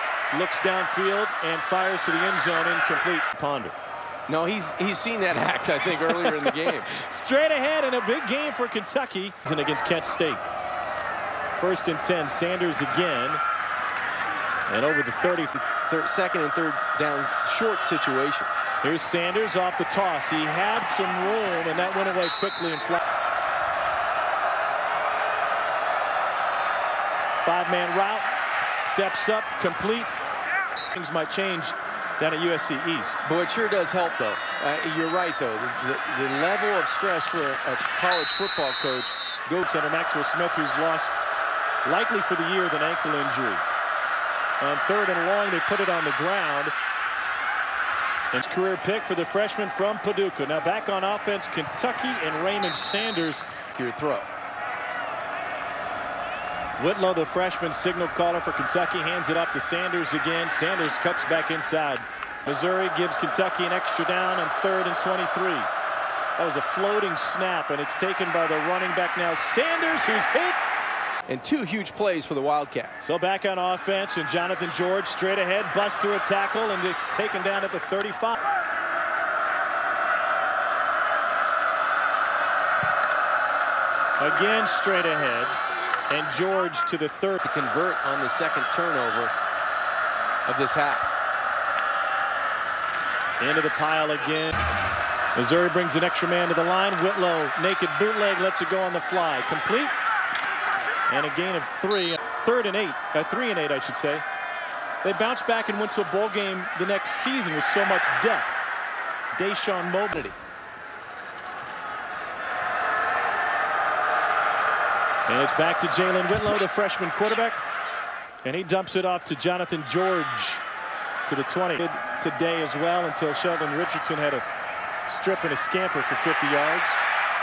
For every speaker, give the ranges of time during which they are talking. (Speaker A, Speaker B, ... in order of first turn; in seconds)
Speaker A: 0.3-3.8, 6.2-10.4, 11.6-13.4, 14.7-15.6, 18.8-23.0, 27.4-28.3, 28.8-30.1, 30.9-33.3, 39.5-41.2, 41.8-43.7, 44.6-46.7, 48.3-53.5, 56.8-65.7, 66.4-70.6, 73.0-78.4, 84.2-85.6, 86.1-87.5, 93.4-94.6, 95.3-100.0, 101.1-104.2, 105.0-108.6, 109.3-110.3, 115.3-117.6, 118.4-120.6, 121.3-124.4, 125.1-127.0
Speaker B: 4.3-6.9, 15.9-18.6, 33.2-39.4, 53.7-54.3, 71.3-73.0, 87.4-89.3, 90.5-91.2